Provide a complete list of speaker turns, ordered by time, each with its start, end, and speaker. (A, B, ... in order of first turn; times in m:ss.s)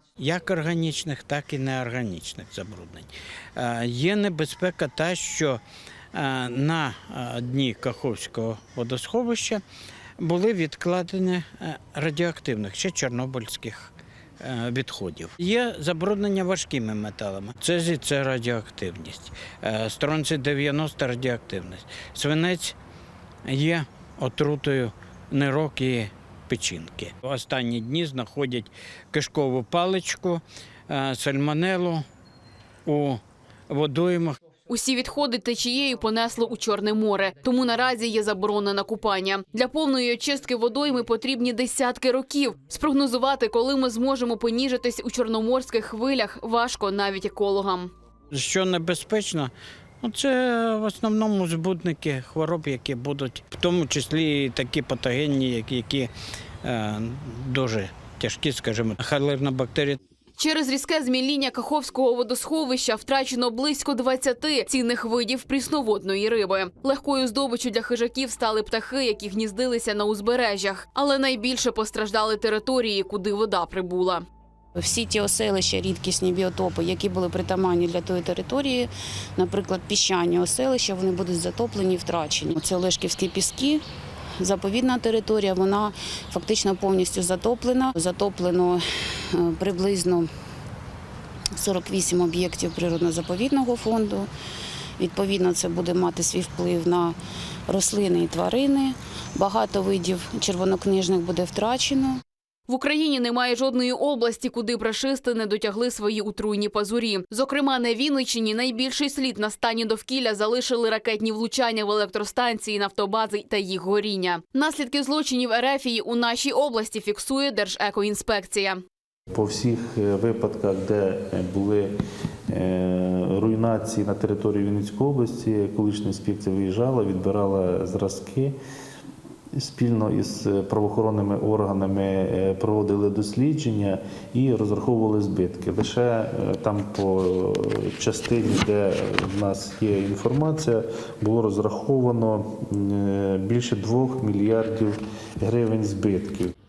0:00.2-0:05.6 A
0:06.1-0:09.6 A
0:10.2-0:22.8 A
0:23.4-0:32.0 A
0:32.8-0:34.4 A
0:34.7-0:47.9 B
0:48.3-0:56.1 A
0:56.6-1:00.0 A
1:00.4-1:14.2 B
1:14.8-1:23.8 C
1:24.4-1:30.3 C
1:31.6-1:34.3 C
1:35.0-1:37.2 C
1:37.7-1:42.2 C
1:42.7-1:58.8 B
1:59.3-2:01.9 D
2:02.5-2:08.5 D
2:09.5-2:26.5 D